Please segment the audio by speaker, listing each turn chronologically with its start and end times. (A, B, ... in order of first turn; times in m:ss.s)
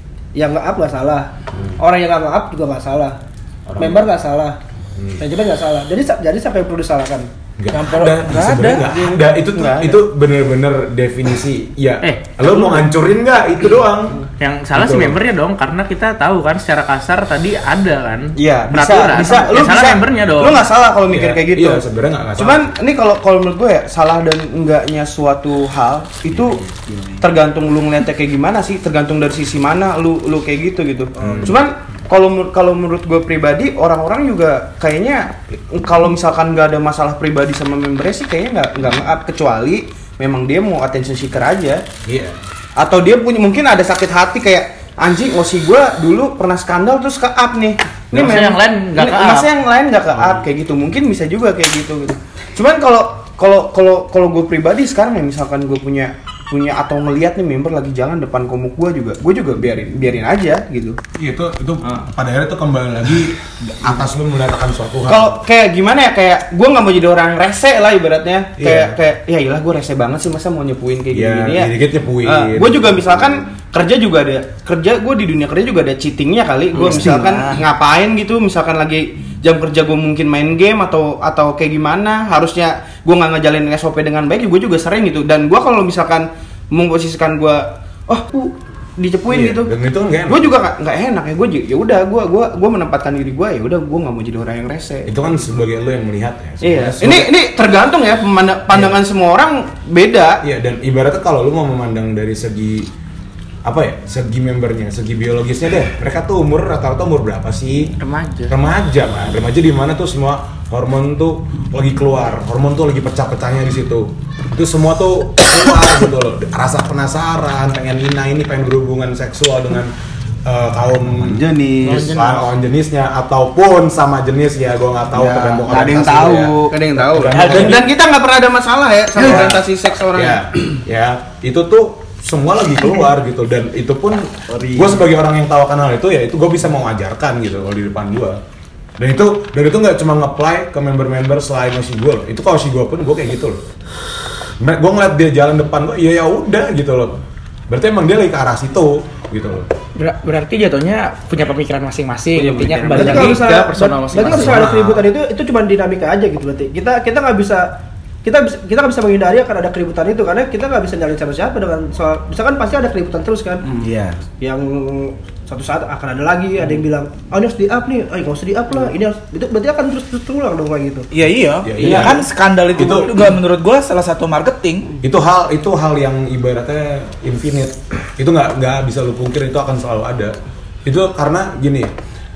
0:00.3-0:03.2 A
0:03.7-0:04.0 B
0:03.8-0:04.6 A
0:05.2-0:07.3 A
0:07.6-0:14.2 B
0:07.7-0:09.0 C
0:09.5-0:10.0 D
0:12.0-0:12.7 E
0:14.4-0:20.6 E
0:14.7-0:15.2 B
0:18.4-0:21.8 D
0:21.1-0:22.7 B
0:22.4-0:26.6 D
0:27.2-0:41.8 D
0:31.2-0:31.6 B
0:42.0-0:42.4 B
0:42.8-1:01.0 D
0:48.1-0:49.5 E
0:50.1-0:50.4 B
1:01.1-1:05.4 B
1:05.1-1:11.7 D
1:08.6-1:09.0 B
1:11.1-1:13.5 B
1:12.2-1:29.7 D
1:16.9-1:17.4 C
1:29.3-1:30.5 B
1:30.3-1:35.1 D
1:35.0-1:37.3 B
1:36.6-1:40.4 D
1:38.7-1:39.0 B
1:40.4-1:42.9 B
1:43.6-1:47.9 B
1:48.0-1:48.5 E
1:48.5-1:59.9 B
2:00.4-2:07.9 B
2:01.2-2:02.2 F
2:05.1-2:06.7 F
2:05.7-2:10.5 D
2:09.2-2:18.4 B
2:14.6-2:14.9 F
2:19.0-2:23.6 B
2:24.6-2:29.7 B
2:30.0-2:34.6 E
2:32.3-2:33.4 D
2:32.9-2:43.7 A
2:34.2-2:35.0 B
2:43.8-2:44.2 F
2:44.4-2:51.1 A
2:51.1-2:54.9 C
2:51.6-2:53.2 B
2:55.0-3:01.9 B